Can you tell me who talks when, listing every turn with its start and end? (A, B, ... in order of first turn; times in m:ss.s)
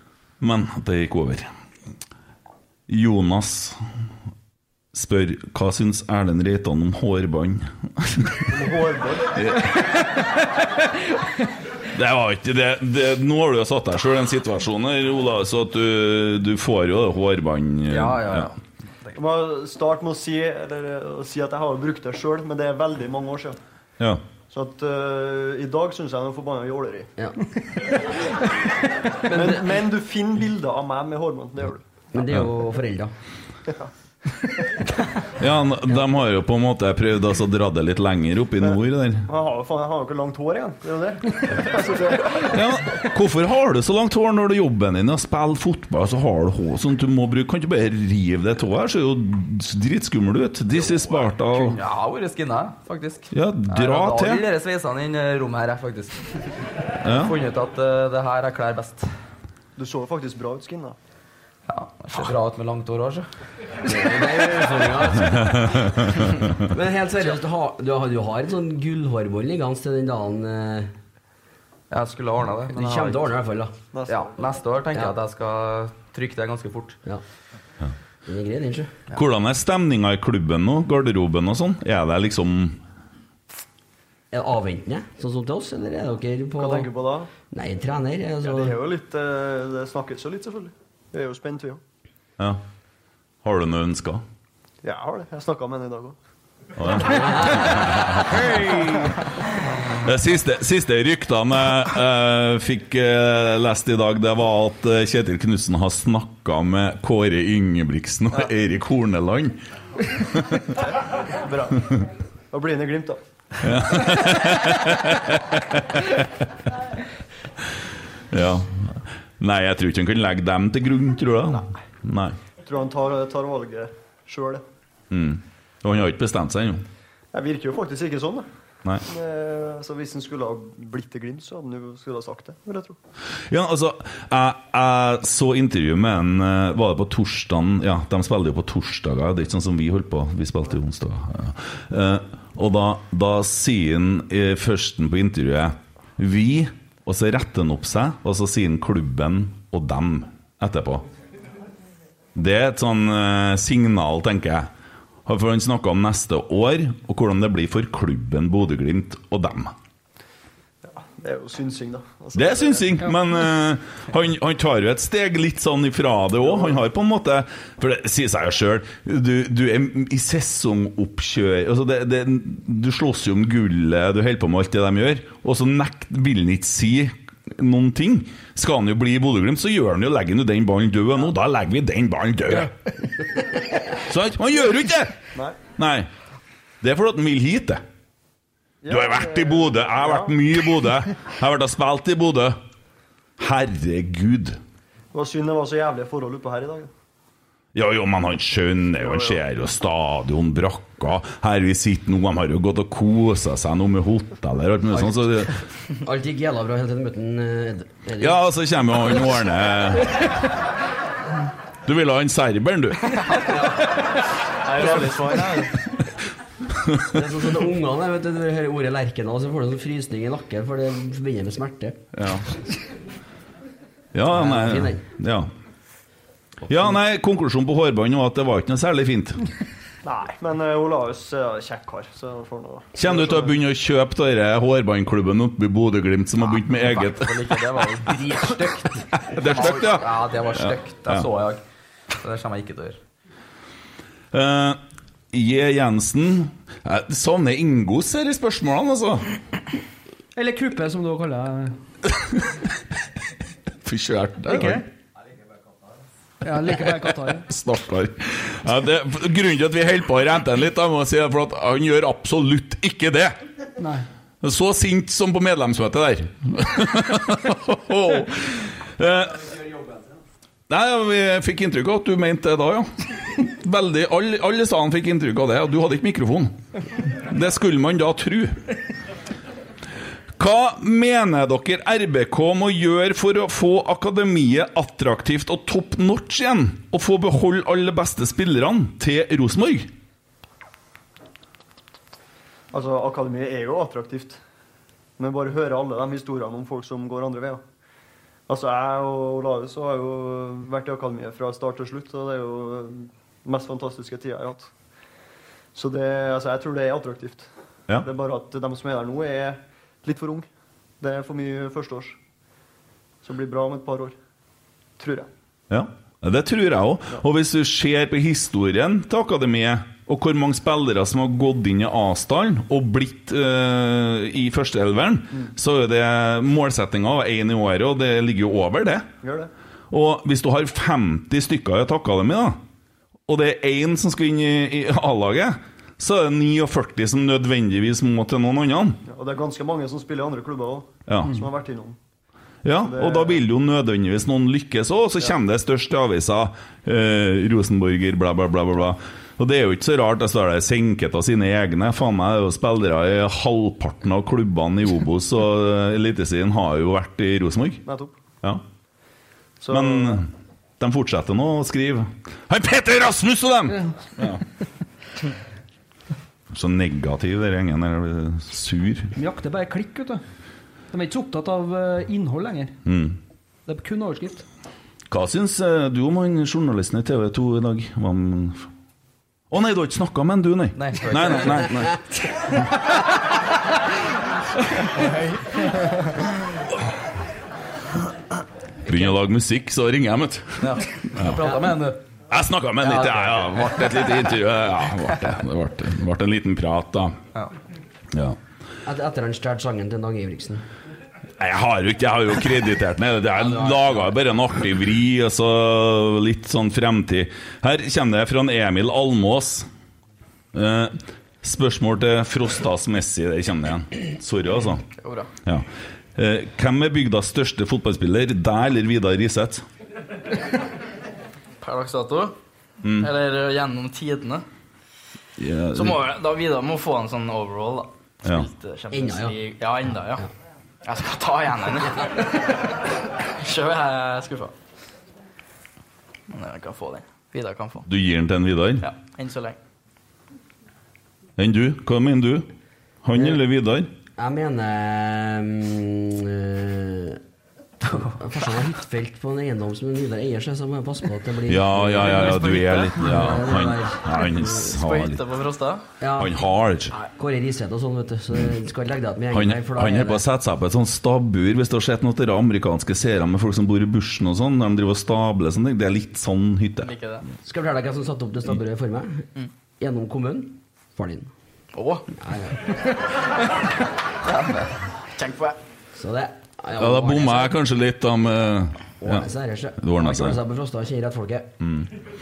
0:00.4-0:01.5 A
0:02.9-0:03.8 A
0:04.9-0:08.5 A
0:08.5-0:09.4 B
0:09.3-0:09.9 A
0:11.9-0:18.5 A
0:17.9-0:18.5 C
0:19.2-0:23.6 B
0:24.5-0:27.1 B
0:29.2-0:31.8 B
0:32.1-0:33.1 D
0:35.4-0:39.3 A
0:38.7-0:42.5 B
0:42.4-0:51.8 A
0:50.8-0:56.3 C
0:53.3-0:54.4 A
0:57.0-0:57.3 A
0:57.1-0:59.1 C
0:59.8-1:01.0 B
1:01.7-1:03.3 C
1:03.8-1:05.6 D
1:05.3-1:06.0 A
1:06.6-1:10.9 D
1:11.9-1:13.3 C
1:12.7-1:13.7 D
1:13.9-1:14.3 B
1:14.1-1:17.0 C
1:18.3-1:18.9 D
1:19.1-1:22.8 A
1:24.3-1:26.9 D
1:26.6-1:27.3 B
1:27.5-1:28.8 D
1:28.4-1:31.8 B
1:33.4-1:34.2 A
1:34.8-1:36.2 B
1:36.8-1:38.8 A
1:37.0-1:38.0 D
1:40.0-1:50.7 A
1:51.3-1:52.0 B
1:52.5-1:53.2 B
1:53.6-1:56.2 A
1:58.3-2:02.4 A
2:02.6-2:04.6 B
2:05.1-2:06.8 A
2:07.3-2:08.4 B
2:09.0-2:13.0 B
2:13.5-2:31.0 A
2:32.3-2:34.7 A
2:35.2-2:39.7 A
2:40.8-2:43.0 B
2:42.3-3:02.8 A
3:04.0-3:05.2 A
3:05.7-3:06.1 A
3:06.8-3:07.8 A
3:08.8-3:10.4 B
3:08.9-3:12.6 A
3:13.4-3:14.6 A
3:15.1-3:16.9 B
3:17.7-3:25.5 A
3:19.1-3:19.3 B
3:26.0-3:28.4 D
3:28.2-3:30.3 A
3:31.8-3:33.2 A
3:33.2-3:35.7 E
3:33.4-3:33.9 D
3:37.1-3:42.0 D
3:42.1-3:42.4 A
3:44.1-3:45.5 A
3:44.3-3:45.0 D
3:46.7-3:49.5 A
3:50.0-3:53.5 B
3:52.9-3:57.6 A
3:56.4-4:03.0 C
3:59.2-4:01.2 A
4:04.3-4:04.8 A
4:05.3-4:09.3 A
4:10.3-4:11.7 F
4:12.1-4:12.6 A
4:13.8-4:14.8 A
4:14.5-4:14.8 F
4:16.4-4:17.5 F
4:17.4-4:23.4 A
4:23.8-4:24.0 F
4:24.4-4:29.5 A
4:29.5-4:30.0 C
4:30.7-4:38.6 A
4:40.4-4:49.9 A
4:52.7-4:54.4 B
4:55.2-4:57.6 B
4:58.5-5:04.7 B
5:05.7-5:07.5 B
5:08.0-5:10.5 B
5:11.0-5:12.2 B
5:13.2-5:14.2 B
5:15.0-5:15.3 B
5:15.7-5:29.1 A
5:29.2-5:29.5 B
5:29.9-5:32.6 A
5:33.3-5:39.0 A
5:39.0-5:42.0 B
5:41.1-5:41.4 A
5:42.6-5:57.8 A
5:42.8-5:43.4 B
5:57.8-5:58.2 B
5:59.6-6:00.2 B
5:59.7-6:04.4 A
6:06.5-6:09.1 A
6:09.2-6:10.2 F
6:10.9-6:12.8 F
6:12.8-6:13.2 A
6:13.6-6:14.4 F
6:15.1-6:18.7 A
6:19.5-6:22.0 A
6:20.7-6:21.9 C
6:28.8-6:31.4 A
6:30.6-6:32.0 C
6:32.3-6:37.2 A
6:32.8-6:33.9 C
6:38.1-6:38.4 A
6:38.8-6:40.6 D
6:41.4-6:49.7 A
6:43.4-6:44.1 D
6:50.5-6:54.8 A
6:55.0-6:55.3 E
6:55.4-6:59.6 A
7:01.6-7:02.3 E
7:02.8-7:03.1 A
7:02.9-7:04.4 E
7:05.4-7:06.0 A
7:05.7-7:10.2 E
7:08.9-7:09.4 D
7:10.8-7:14.5 E
7:16.3-7:17.8 E
7:17.9-7:18.8 A
7:18.8-7:19.6 E
7:21.4-7:22.5 A
7:23.0-7:23.9 A
7:24.2-7:27.2 D
7:27.8-7:34.7 D
7:31.4-7:35.2 A
7:32.5-7:32.8 E
7:34.6-7:35.8 E
7:36.0-7:36.3 D
7:36.2-7:36.9 A
7:37.0-7:40.2 D
7:39.3-7:46.9 A
7:46.8-7:47.2 E
7:47.4-7:49.3 D
7:49.8-7:51.3 D
7:51.7-7:52.0 E
7:52.2-7:52.8 D
7:54.2-7:54.7 C
7:55.1-7:55.6 E
7:55.9-7:57.6 D
7:56.8-7:59.3 A
7:59.0-8:01.5 D
7:59.8-8:00.4 A
8:01.6-8:01.9 A